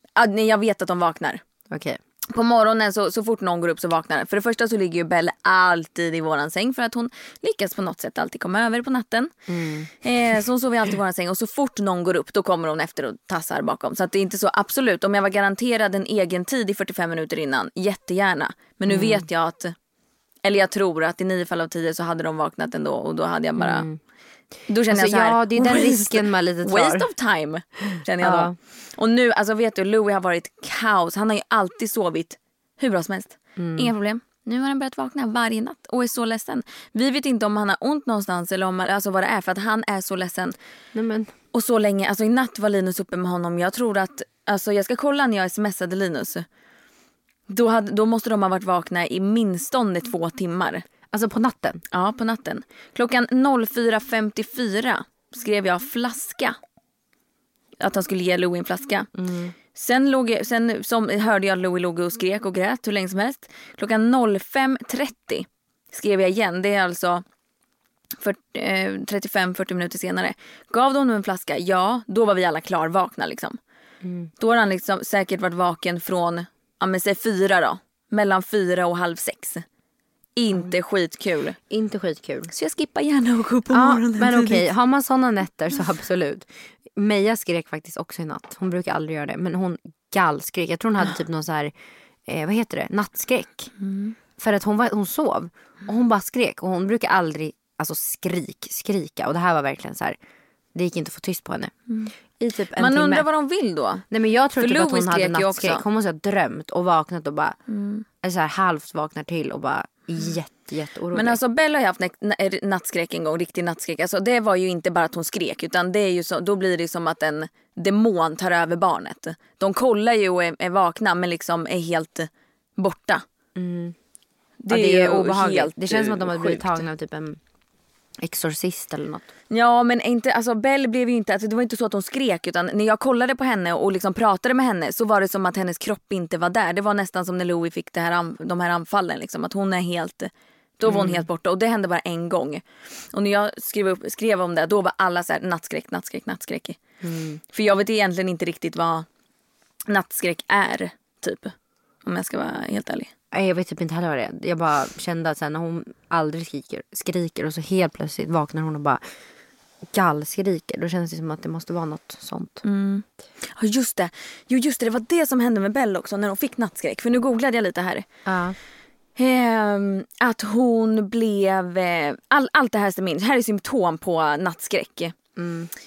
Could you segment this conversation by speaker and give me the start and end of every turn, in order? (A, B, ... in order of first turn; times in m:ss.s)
0:00.2-0:01.4 A
0:01.7-0:02.0 B
0:02.3-0:09.3 A
0:09.5-0:09.9 B
0:10.0-0:19.7 A
0:18.9-0:19.2 B
0:20.4-0:23.8 A
0:23.6-0:24.0 B
0:24.7-0:40.6 A
0:24.9-0:27.1 B
0:28.2-0:28.6 B
0:33.6-0:33.9 B
0:40.9-0:41.3 B
0:41.5-0:46.4 A
0:47.5-0:50.8 A
0:51.1-0:51.8 B
0:51.9-0:56.6 A
0:57.8-0:59.1 A
0:59.1-0:59.5 B
0:59.7-1:07.2 A
1:08.2-1:13.6 A
1:14.0-1:14.3 B
1:14.4-1:19.6 A
1:20.4-1:21.6 A
1:21.7-1:22.5 B
1:22.5-1:24.6 A
1:23.7-1:31.7 B
1:32.2-1:33.7 B
1:33.8-1:34.1 A
1:34.4-1:40.2 B
1:40.7-1:41.7 B
1:42.4-1:43.3 B
1:42.8-1:44.0 A
1:44.1-1:47.6 B
1:44.6-1:45.8 A
1:47.7-1:48.0 A
1:48.2-1:51.4 B
1:51.1-2:03.2 A
2:03.6-2:03.9 B
2:04.6-2:06.8 A
2:04.7-2:07.4 B
2:08.2-2:09.3 B
2:09.5-2:26.8 A
2:20.8-2:21.2 B
2:27.0-2:27.4 B
2:27.5-2:29.1 A
2:29.9-2:33.1 A
2:33.3-2:39.0 B
2:39.9-2:42.6 B
2:42.6-2:48.1 A
2:48.2-2:48.6 B
2:49.2-2:55.1 A
2:55.4-2:55.7 B